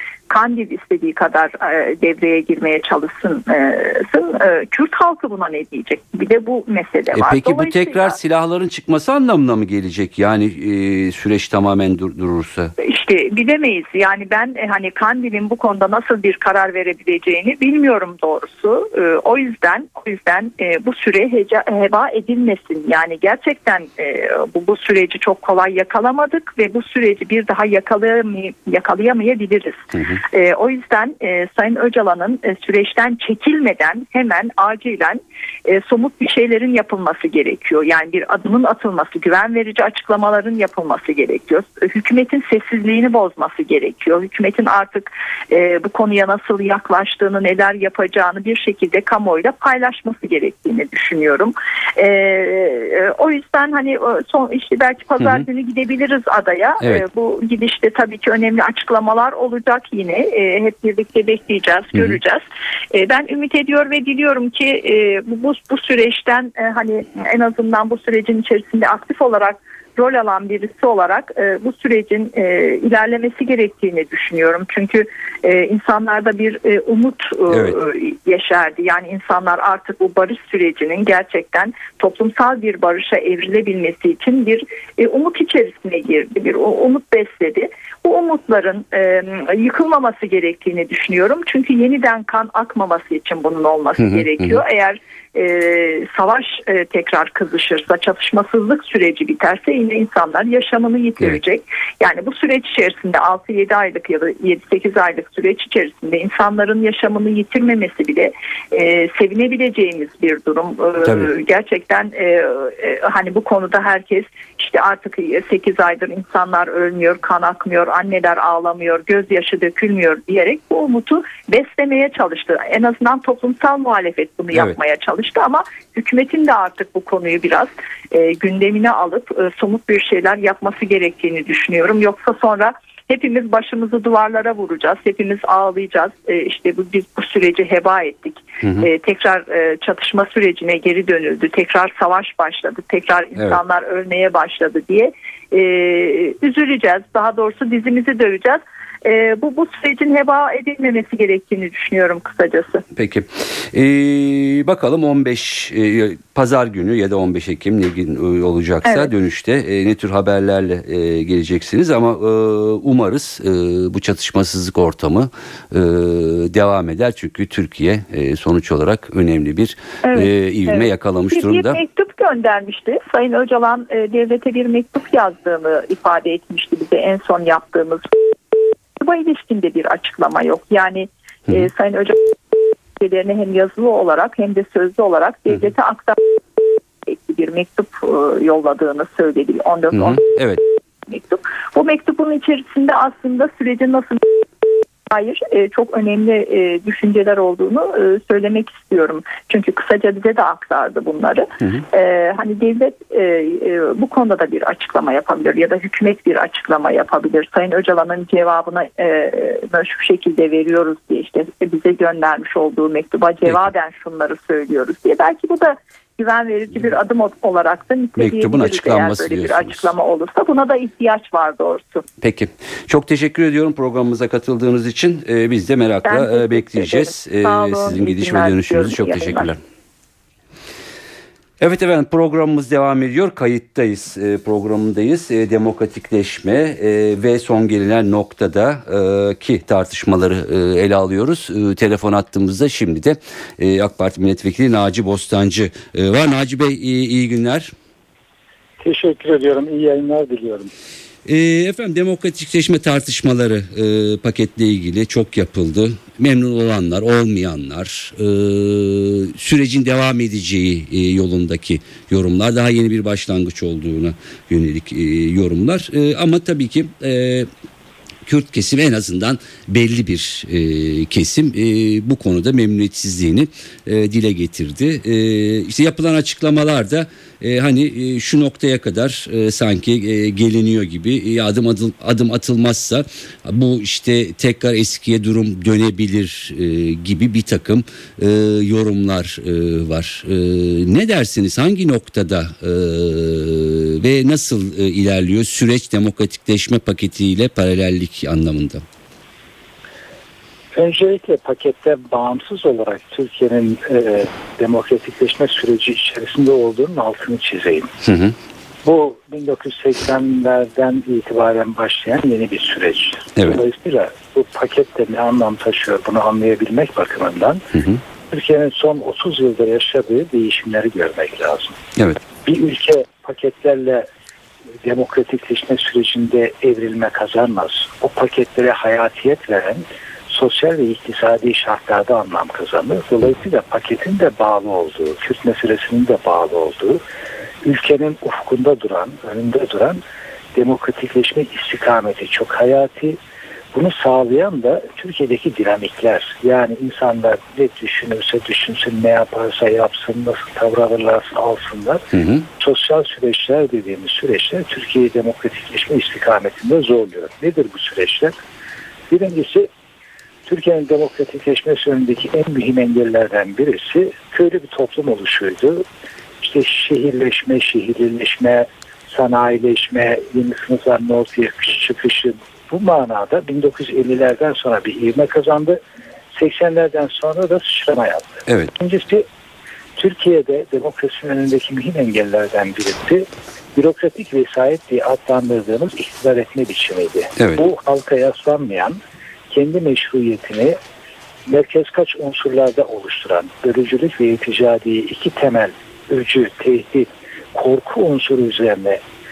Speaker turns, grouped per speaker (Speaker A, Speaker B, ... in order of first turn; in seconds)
Speaker A: 0.3-8.2, 12.8-152.8, 158.8-159.1, 170.0-178.2, 179.0-182.4, 183.0-190.2, 191.1-194.5, 195.1-222.1, 226.1-229.5
Speaker B: 7.1-12.7, 29.9-30.2, 62.0-62.2, 77.5-77.8, 94.0-94.6, 111.0-111.3, 152.9-171.8, 189.9-190.6, 218.2-219.9, 222.2-229.6, 231.6-247.7, 251.2-267.5, 268.3-298.8, 308.0-308.4, 317.8-318.0, 352.1-352.5
Speaker C: 248.8-250.7, 300.7-307.9, 308.8-317.7, 318.3-321.8, 322.4-324.1, 324.8-337.0, 337.6-340.0, 340.6-343.2, 343.7-358.4, 359.1-359.7, 360.5-365.9, 366.4-375.8, 376.3-379.3, 380.0-390.8, 391.5-399.0